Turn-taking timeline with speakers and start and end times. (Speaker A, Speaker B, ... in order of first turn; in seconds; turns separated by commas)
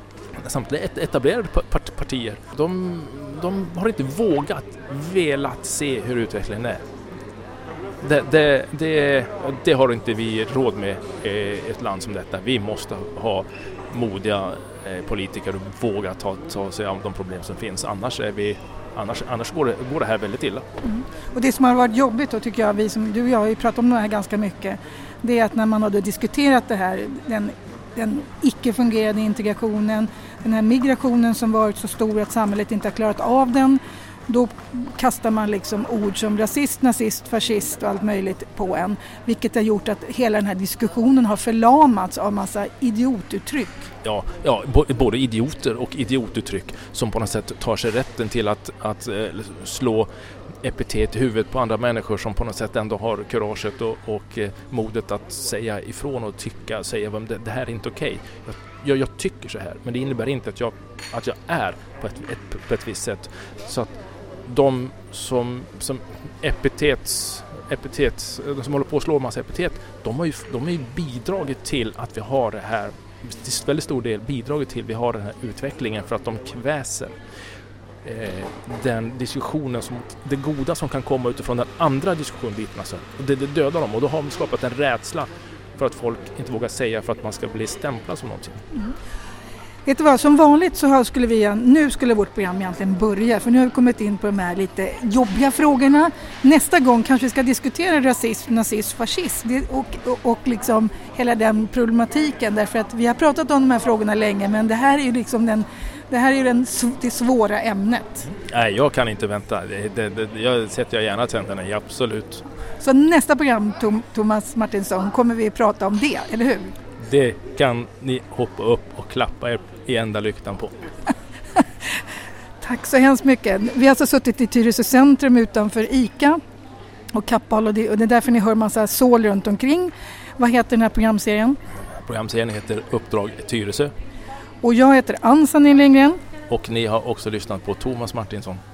Speaker A: 0.3-6.8, Speaker A: 8.0-20.7, Speaker B: 20.8-43.9, Speaker A: 44.0-50.1, Speaker A: 50.6-63.9, Speaker A: 64.5-77.2, Speaker A: 78.0-88.6, Speaker B: 89.9-108.3, Speaker A: 108.3-112.4, Speaker B: 112.8-116.8, Speaker A: 117.0-120.7, Speaker B: 122.6-126.4, Speaker B: 127.1-131.6, Speaker A: 132.0-133.9, Speaker B: 134.6-136.2, Speaker A: 136.5-138.6